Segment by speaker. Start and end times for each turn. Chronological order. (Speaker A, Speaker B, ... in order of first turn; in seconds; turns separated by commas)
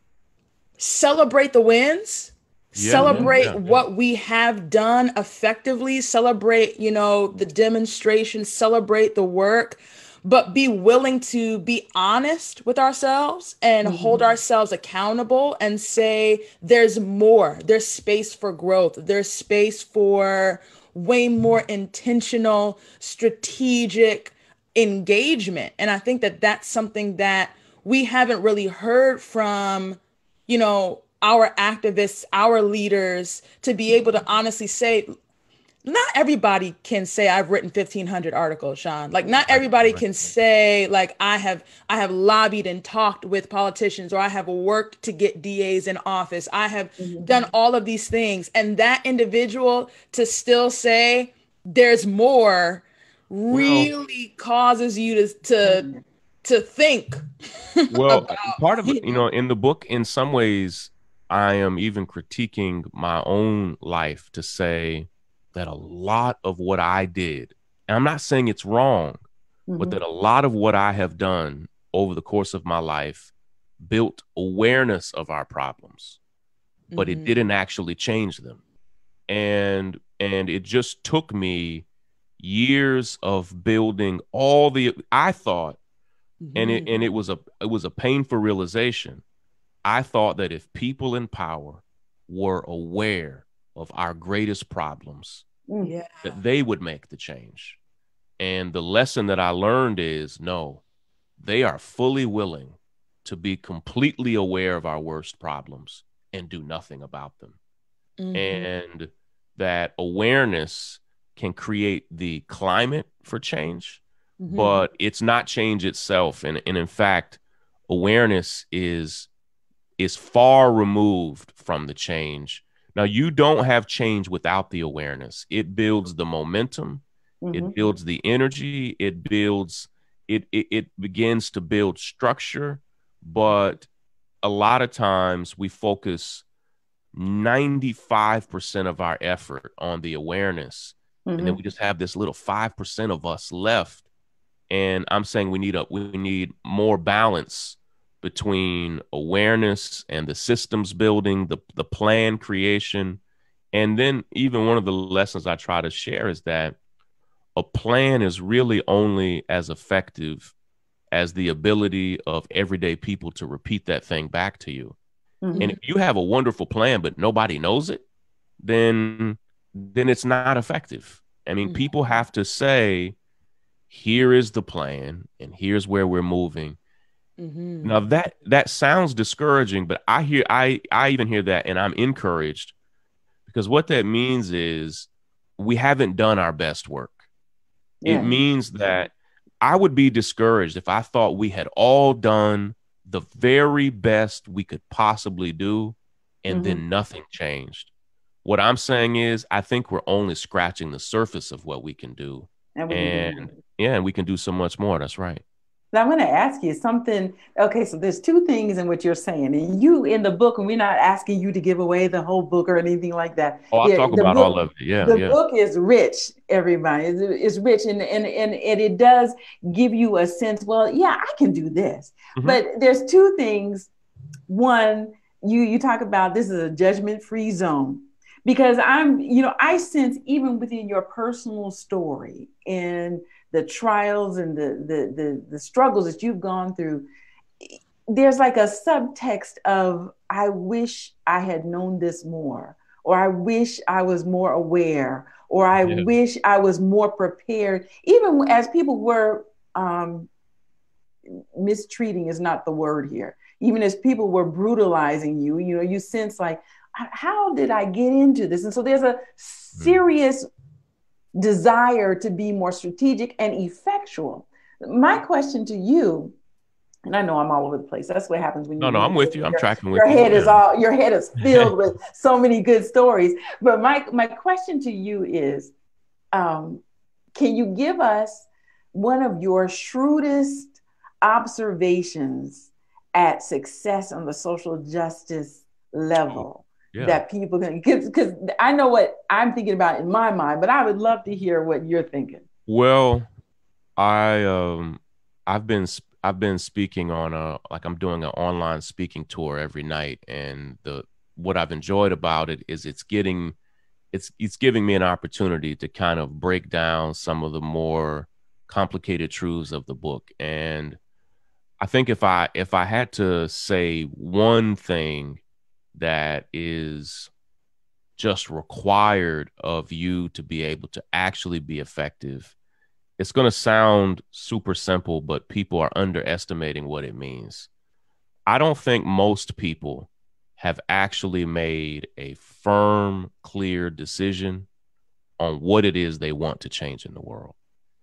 Speaker A: 0.8-35.1, Speaker B: 2.7-3.6, Speaker C: 2.9-3.4, Speaker C: 13.8-14.2, Speaker A: 35.8-55.9, Speaker B: 39.5-40.3, Speaker C: 47.0-47.5, Speaker B: 53.5-53.9, Speaker C: 55.6-56.0, Speaker A: 56.4-57.2, Speaker A: 57.8-59.2, Speaker B: 57.9-69.2, Speaker C: 69.7-70.0, Speaker B: 69.8-76.2, Speaker A: 76.9-77.4, Speaker B: 77.0-78.6, Speaker B: 79.3-81.8, Speaker B: 82.4-85.8, Speaker A: 86.4-87.1, Speaker B: 86.5-89.2, Speaker B: 89.8-95.4, Speaker C: 95.7-95.9, Speaker A: 95.8-96.4, Speaker B: 96.2-97.8, Speaker B: 98.4-100.8, Speaker B: 101.4-107.6, Speaker A: 108.2-108.7, Speaker B: 108.3-119.3, Speaker A: 114.4-114.8, Speaker B: 120.0-133.9, Speaker C: 127.4-127.8, Speaker B: 134.4-136.4, Speaker B: 137.1-144.0, Speaker C: 141.3-141.6, Speaker B: 144.7-153.2, Speaker B: 153.7-156.8, Speaker B: 157.6-160.5, Speaker B: 161.1-164.9, Speaker C: 165.4-165.8, Speaker B: 165.6-168.0, Speaker B: 168.6-173.2, Speaker A: 171.6-171.9, Speaker B: 173.9-176.8, Speaker A: 177.4-178.0, Speaker B: 177.8-182.7, Speaker B: 183.4-187.2, Speaker C: 188.0-188.4, Speaker B: 188.0-197.9, Speaker C: 196.5-196.8, Speaker B: 198.4-205.4, Speaker C: 202.8-203.6, Speaker C: 205.9-223.9, Speaker B: 213.7-215.4, Speaker B: 222.3-222.6, Speaker C: 224.5-237.1, Speaker C: 237.6-250.3, Speaker B: 245.8-246.1, Speaker C: 251.2-260.5, Speaker C: 261.3-266.4, Speaker C: 267.1-275.7, Speaker B: 268.8-270.6, Speaker B: 271.4-271.7, Speaker C: 276.3-276.8, Speaker C: 277.3-292.4, Speaker B: 286.3-287.2, Speaker B: 292.7-293.3, Speaker B: 294.0-303.5, Speaker B: 304.1-311.0, Speaker B: 311.8-315.4, Speaker B: 315.9-317.3, Speaker B: 318.2-322.5, Speaker B: 323.2-327.7, Speaker B: 328.5-334.7, Speaker B: 335.4-337.5